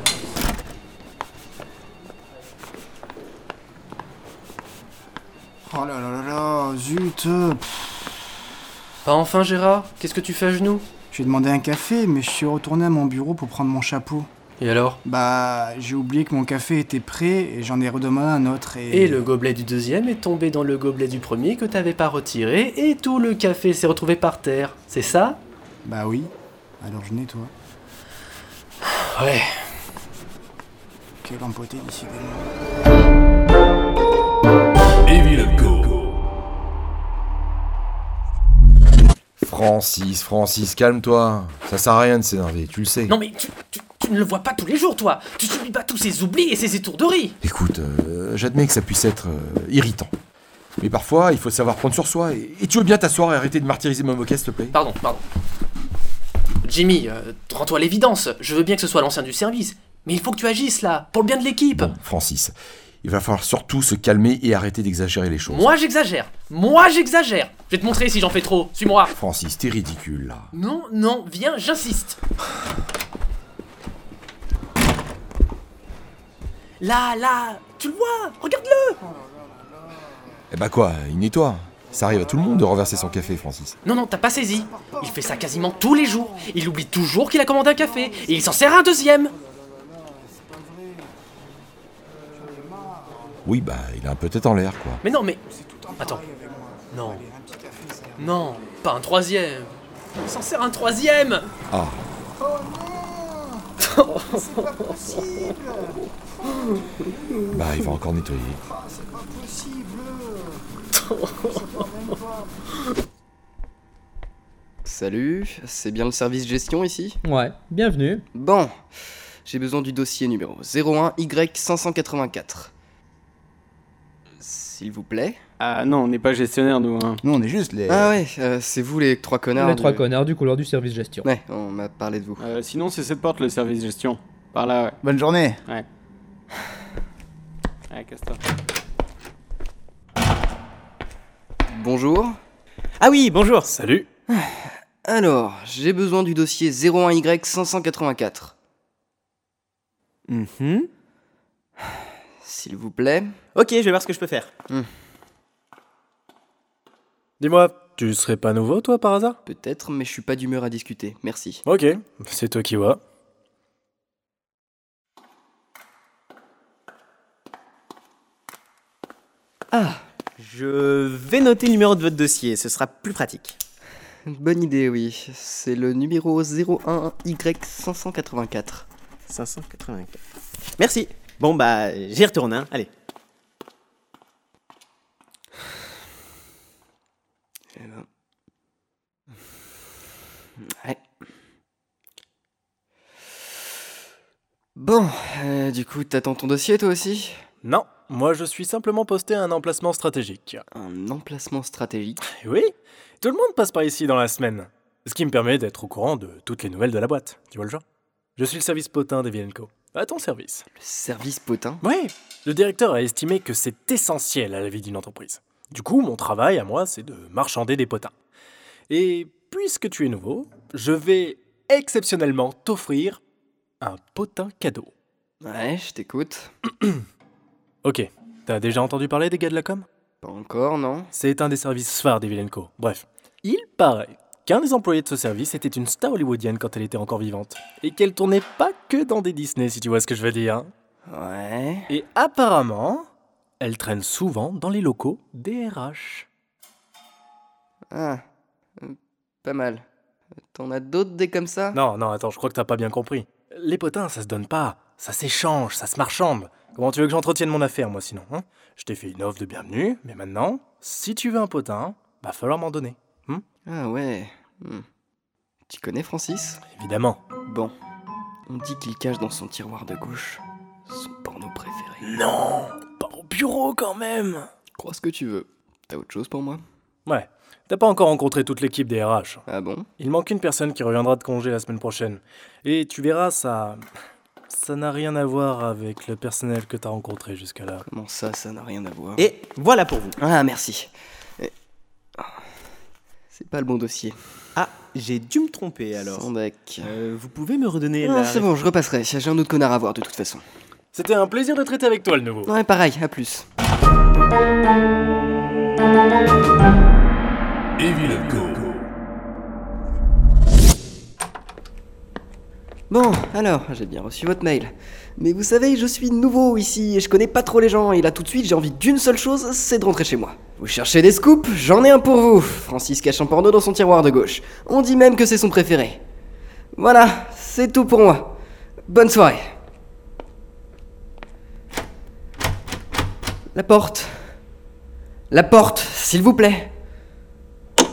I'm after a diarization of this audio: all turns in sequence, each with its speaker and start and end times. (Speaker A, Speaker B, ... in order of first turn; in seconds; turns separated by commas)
Speaker A: 5.7-7.9, Speaker B: 9.1-10.8, Speaker A: 11.1-14.3, Speaker B: 14.6-15.0, Speaker A: 15.1-19.2, Speaker B: 18.9-25.4, Speaker A: 25.9-27.5, Speaker B: 29.1-29.5, Speaker A: 31.2-32.6, Speaker C: 39.4-43.1, Speaker B: 43.1-47.4, Speaker C: 47.4-50.1, Speaker C: 50.8-54.8, Speaker B: 54.7-55.2, Speaker B: 56.6-61.9, Speaker C: 61.7-65.7, Speaker B: 65.5-69.1, Speaker C: 69.1-70.5, Speaker B: 70.5-72.2, Speaker B: 76.8-79.0, Speaker C: 80.5-83.8, Speaker B: 83.8-89.3, Speaker A: 84.8-86.5, Speaker A: 88.0-88.5, Speaker A: 89.9-91.2, Speaker A: 92.3-93.4, Speaker C: 93.5-95.0, Speaker B: 95.0-95.4, Speaker A: 95.5-98.5, Speaker B: 96.9-97.2, Speaker B: 98.2-101.5, Speaker C: 101.7-102.0, Speaker A: 102.4-106.0, Speaker B: 103.8-104.9, Speaker A: 107.5-107.9, Speaker C: 107.5-108.6, Speaker A: 108.7-110.7, Speaker A: 111.5-112.5, Speaker D: 114.8-117.2, Speaker E: 117.2-118.2, Speaker D: 118.3-118.7, Speaker D: 119.5-122.7, Speaker D: 124.4-125.4, Speaker F: 125.6-127.2, Speaker A: 127.2-128.1, Speaker D: 127.9-130.0, Speaker E: 129.6-131.3, Speaker D: 131.2-132.4, Speaker F: 132.4-135.0, Speaker A: 135.1-135.6, Speaker F: 137.9-138.4, Speaker D: 141.7-142.4, Speaker G: 143.0-143.7, Speaker H: 143.7-144.1, Speaker D: 144.3-148.5, Speaker G: 150.3-150.9, Speaker D: 152.4-153.3, Speaker G: 153.6-154.5, Speaker H: 157.4-159.4, Speaker D: 159.5-161.6, Speaker H: 161.7-163.0, Speaker D: 169.7-170.0, Speaker G: 170.4-173.6, Speaker D: 174.3-178.9, Speaker G: 179.3-180.2, Speaker G: 180.8-182.9, Speaker D: 187.8-188.1, Speaker D: 194.8-197.4, Speaker H: 197.6-200.6, Speaker D: 200.7-202.2, Speaker H: 202.4-207.8, Speaker H: 208.4-210.7, Speaker D: 210.8-211.8, Speaker H: 211.8-218.1, Speaker H: 218.9-223.2, Speaker H: 223.8-224.9, Speaker D: 225.4-226.5, Speaker H: 227.8-229.9, Speaker D: 230.2-231.1, Speaker H: 231.1-240.7, Speaker D: 241.1-241.9, Speaker H: 241.9-243.1, Speaker H: 243.6-246.3, Speaker D: 247.9-248.2, Speaker D: 248.8-249.8, Speaker D: 250.5-251.8, Speaker H: 251.7-263.4, Speaker D: 263.7-264.9, Speaker D: 265.7-266.6, Speaker H: 266.8-267.2, Speaker D: 267.5-267.7, Speaker D: 268.5-272.1, Speaker H: 272.0-274.5, Speaker D: 274.8-276.6, Speaker H: 277.1-279.4, Speaker D: 279.5-279.9, Speaker H: 280.0-283.8, Speaker H: 284.5-287.9, Speaker D: 287.9-289.3, Speaker G: 289.2-290.2, Speaker D: 290.2-291.5, Speaker D: 293.3-294.1, Speaker G: 294.6-296.3, Speaker D: 296.1-296.9, Speaker G: 296.8-298.6, Speaker D: 298.0-300.4, Speaker H: 300.9-302.5, Speaker D: 302.4-303.4, Speaker D: 312.9-326.0, Speaker D: 326.8-328.4, Speaker D: 328.9-329.4, Speaker D: 333.6-334.1, Speaker D: 335.3-336.7